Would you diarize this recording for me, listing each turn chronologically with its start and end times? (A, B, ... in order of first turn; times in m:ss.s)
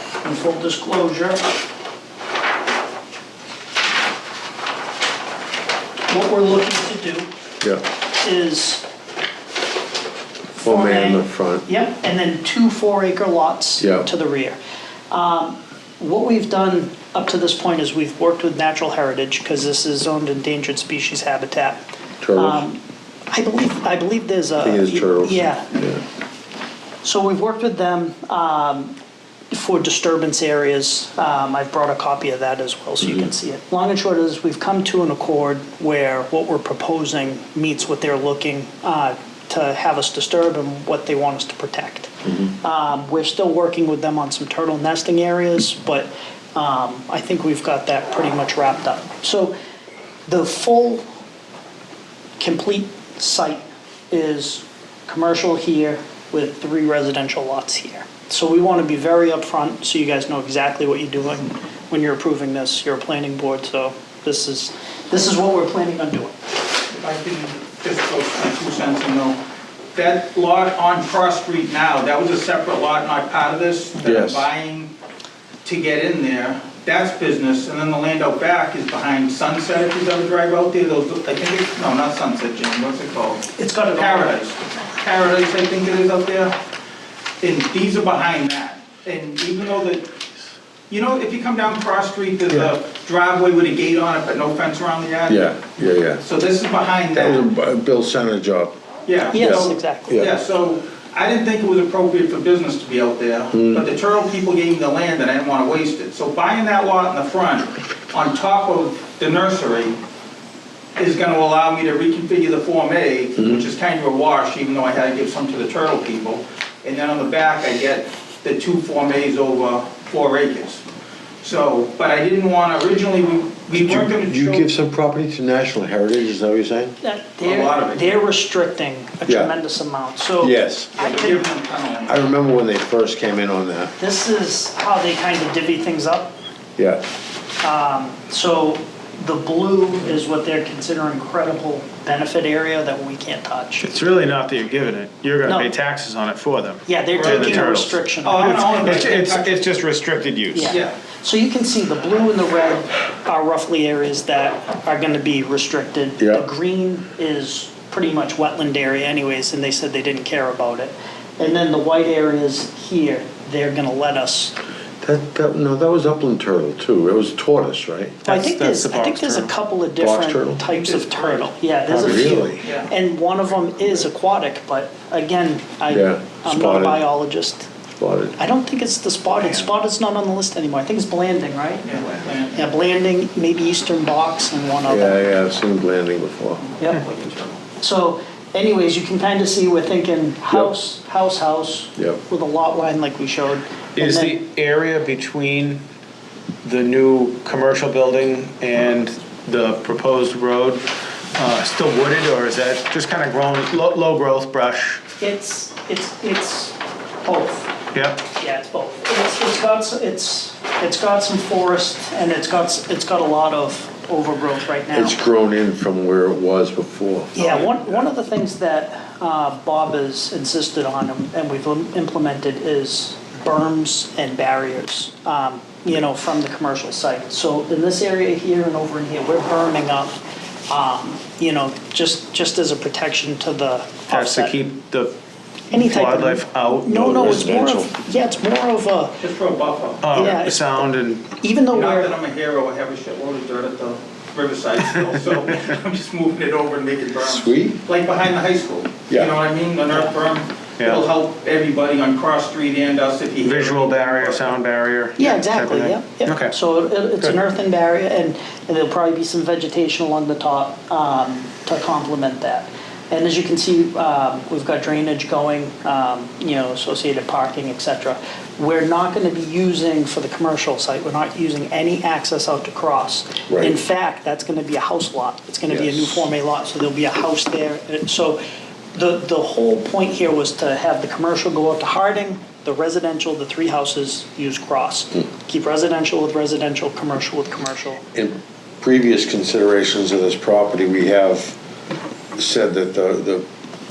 0:00.2-0:01.4 A
0:06.1-0:07.3 A
0:08.2-0:08.8 A
0:10.6-0:14.6 A
0:10.6-0:11.6 B
0:13.8-0:14.1 B
0:15.1-0:21.8 A
0:22.2-0:22.6 B
0:22.3-0:25.7 A
0:24.6-0:26.0 B
0:27.0-0:28.9 A
0:29.5-0:49.5 A
0:50.3-0:51.0 A
0:52.4-1:06.3 A
1:06.9-1:09.4 C
1:09.9-1:14.9 C
1:14.0-1:14.5 B
1:15.6-1:26.6 C
1:23.5-1:24.3 A
1:27.4-1:30.1 C
1:30.9-1:35.5 C
1:35.3-1:36.2 B
1:36.2-1:37.4 C
1:37.1-1:38.8 B
1:39.1-1:50.0 C
1:39.3-1:40.2 A
1:39.3-1:40.3 B
1:43.5-1:43.8 B
1:51.0-2:00.8 C
1:53.4-1:53.6 B
2:01.4-2:04.6 C
2:03.7-2:07.0 B
2:07.0-2:11.4 A
2:07.4-2:08.2 C
2:09.3-2:09.5 B
2:10.4-2:11.0 B
2:11.0-2:12.2 C
2:12.0-2:13.9 B
2:14.0-2:16.4 A
2:16.8-2:17.0 B
2:17.6-2:23.9 A
2:23.8-2:30.8 D
2:25.4-2:25.7 A
2:26.8-2:29.0 A
2:27.1-2:29.6 C
2:30.5-2:44.5 A
2:30.7-2:30.9 C
2:36.2-2:36.4 B
2:45.0-2:48.2 B
2:48.2-2:49.5 D
2:48.2-2:57.7 A
2:50.0-2:50.6 B
2:50.8-2:51.4 C
2:51.9-2:52.6 B
2:52.6-2:52.9 C
2:55.9-2:57.0 B
2:58.0-2:58.4 B
2:58.4-3:01.9 A
3:01.8-3:02.7 C
3:02.5-3:05.2 A
3:04.8-3:06.6 B
3:06.6-3:07.6 C
3:07.8-3:14.4 A
3:14.0-3:15.8 D
3:16.6-3:25.0 D
3:25.2-3:27.7 A
3:27.9-3:28.2 D
3:28.2-3:35.2 A
3:34.9-3:37.6 B
3:37.3-3:50.2 A
3:50.7-3:54.5 A
3:54.1-3:55.2 D
3:55.7-3:57.4 D
3:55.7-3:59.2 A
3:56.9-3:57.9 B
3:59.2-4:00.0 C
4:00.0-4:01.4 D
4:00.1-4:00.9 A
4:01.4-4:02.1 A
4:01.7-4:14.6 C
4:07.2-4:07.8 B
4:09.1-4:09.3 B
4:10.8-4:11.0 D
4:13.4-4:16.5 D
4:15.2-4:38.4 A
4:33.5-4:33.8 B
4:35.7-4:36.2 B
4:38.9-4:48.0 A
4:48.1-4:51.6 B
4:52.4-4:53.4 B